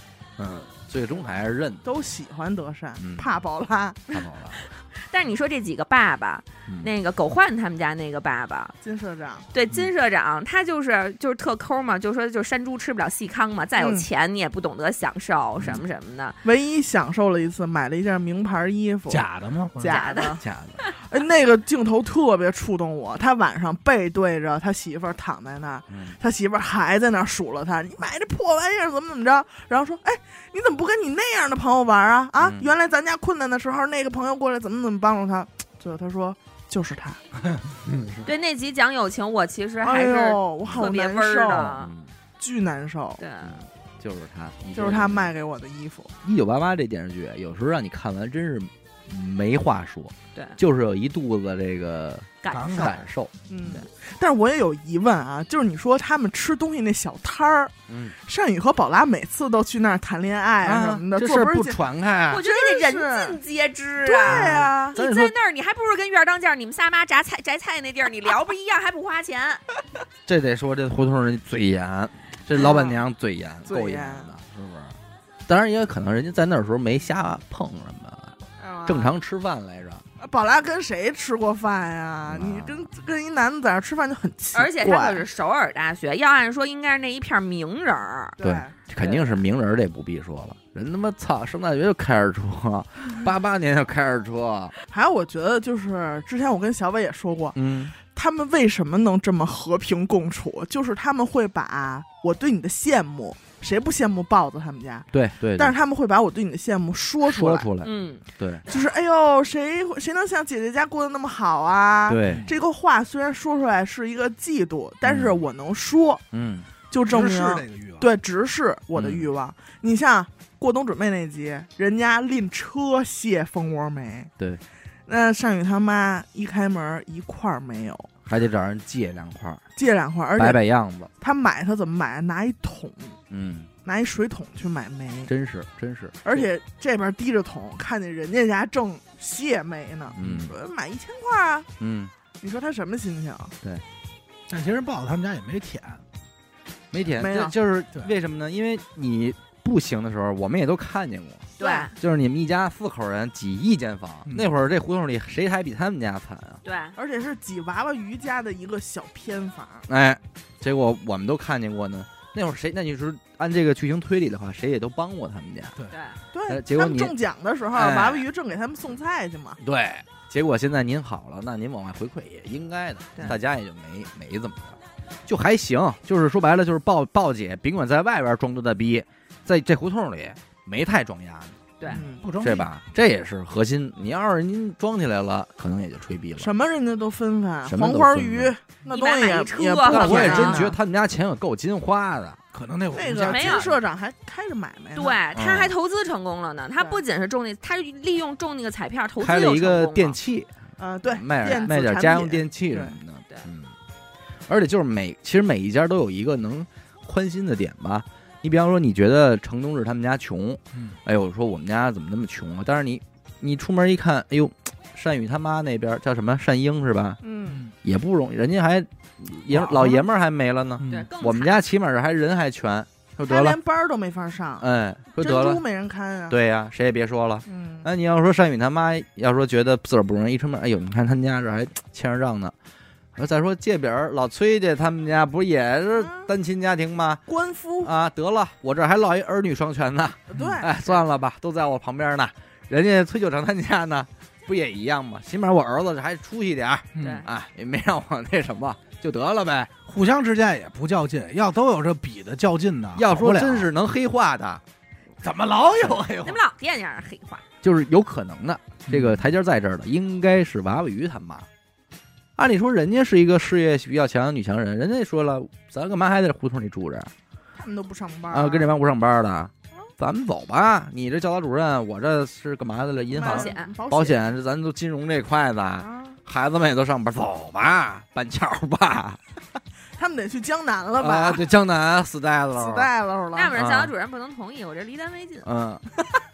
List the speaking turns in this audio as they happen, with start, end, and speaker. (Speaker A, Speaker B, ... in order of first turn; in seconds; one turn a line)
Speaker A: 0.4-1.9
Speaker B: 1.8-4.0
Speaker A: 3.0-3.3
Speaker A: 4.1-4.6
Speaker C: 4.1-8.7
Speaker B: 8.8-9.4
Speaker C: 9.5-16.4
Speaker B: 13.8-14.1
Speaker B: 16.4-20.4
Speaker D: 19.1-19.9
Speaker C: 19.9-20.4
Speaker A: 20.4-20.8
Speaker B: 21.1-37.2
Speaker A: 25.9-26.2
Speaker A: 32.4-32.7
Speaker A: 37.9-38.3
Speaker C: 38.3-41.9
Speaker B: 39.8-41.7
Speaker A: 41.5-42.1
Speaker B: 42.4-43.2
Speaker C: 43.2-43.6
Speaker A: 43.5-45.3
Speaker B: 44.7-46.1
Speaker A: 46.2-53.8
Speaker C: 52.4-53.0
Speaker D: 52.5-53.0
Speaker B: 53.5-61.8
Speaker A: 57.9-58.1
Speaker A: 60.6-62.5
Speaker C: 62.3-69.6
Speaker B: 62.4-63.4
Speaker B: 64.0-65.0
Speaker A: 64.2-65.3
Speaker A: 70.3-75.0
Speaker B: 72.6-73.0
Speaker B: 73.7-74.3
Speaker A: 75.5-80.0
Speaker B: 78.6-79.1
Speaker B: 80.2-85.2
Speaker A: 82.3-82.9
Speaker C: 84.5-88.4
Speaker B: 88.4-88.7
Speaker A: 88.4-94.7
Speaker C: 89.0-89.4
Speaker B: 94.9-107.7
Speaker A: 97.5-98.0
Speaker A: 105.1-105.7
Speaker A: 107.2-108.6
Speaker C: 107.8-108.2
Speaker B: 108.7-116.2
Speaker A: 112.1-112.5
Speaker D: 112.2-112.5
Speaker A: 115.0-115.4
Speaker A: 116.3-116.7
Speaker B: 116.9-124.3
Speaker D: 117.1-118.1
Speaker A: 119.0-119.3
Speaker B: 125.1-128.1
Speaker A: 128.3-129.6
Speaker B: 129.8-130.6
Speaker A: 130.4-131.1
Speaker B: 131.2-133.2
Speaker A: 133.3-133.7
Speaker B: 133.8-135.3
Speaker A: 135.3-136.4
Speaker B: 136.2-141.7
Speaker A: 140.1-140.5
Speaker A: 141.8-142.1
Speaker B: 142.4-143.6
Speaker D: 144.5-146.0
Speaker A: 146.9-156.6
Speaker B: 147.2-147.6
Speaker C: 151.6-151.9
Speaker B: 151.6-151.9
Speaker C: 156.6-156.9
Speaker B: 157.0-159.9
Speaker A: 159.9-165.7
Speaker C: 165.9-166.2
Speaker B: 166.3-169.6
Speaker A: 166.5-167.1
Speaker A: 167.7-168.2
Speaker A: 169.6-186.5
Speaker D: 181.9-182.7
Speaker B: 181.9-182.2
Speaker B: 186.4-190.8
Speaker A: 187.6-188.5
Speaker C: 188.9-190.7
Speaker A: 189.8-192.4
Speaker D: 192.5-193.8
Speaker B: 192.9-195.2
Speaker C: 193.2-193.7
Speaker C: 194.9-200.2
Speaker A: 195.3-195.7
Speaker A: 199.2-200.5
Speaker B: 200.8-202.9
Speaker A: 201.1-203.7
Speaker A: 204.5-217.2
Speaker B: 217.2-217.6
Speaker D: 217.5-217.7
Speaker A: 217.8-223.6
Speaker D: 219.5-220.0
Speaker D: 220.8-221.1
Speaker C: 220.8-221.6
Speaker B: 223.3-226.4
Speaker A: 224.6-225.6
Speaker A: 226.3-232.6
Speaker B: 227.5-227.9
Speaker A: 233.2-237.2
Speaker B: 236.0-236.3
Speaker B: 237.3-237.9
Speaker A: 237.8-249.7
Speaker B: 240.3-241.0
Speaker D: 246.9-247.2
Speaker C: 247.0-247.3
Speaker D: 249.9-253.7
Speaker A: 252.9-254.6
Speaker D: 255.2-256.4
Speaker A: 255.7-256.0
Speaker C: 256.2-257.4
Speaker A: 257.6-261.5
Speaker D: 258.9-259.2
Speaker A: 262.4-267.1
Speaker B: 267.6-268.7
Speaker A: 268.3-279.2
Speaker B: 273.1-274.3
Speaker C: 273.2-273.7
Speaker B: 275.8-276.2
Speaker B: 280.0-281.4
Speaker A: 281.0-282.9
Speaker B: 282.6-283.6
Speaker C: 283.4-285.5
Speaker A: 283.5-283.9
Speaker A: 285.4-285.9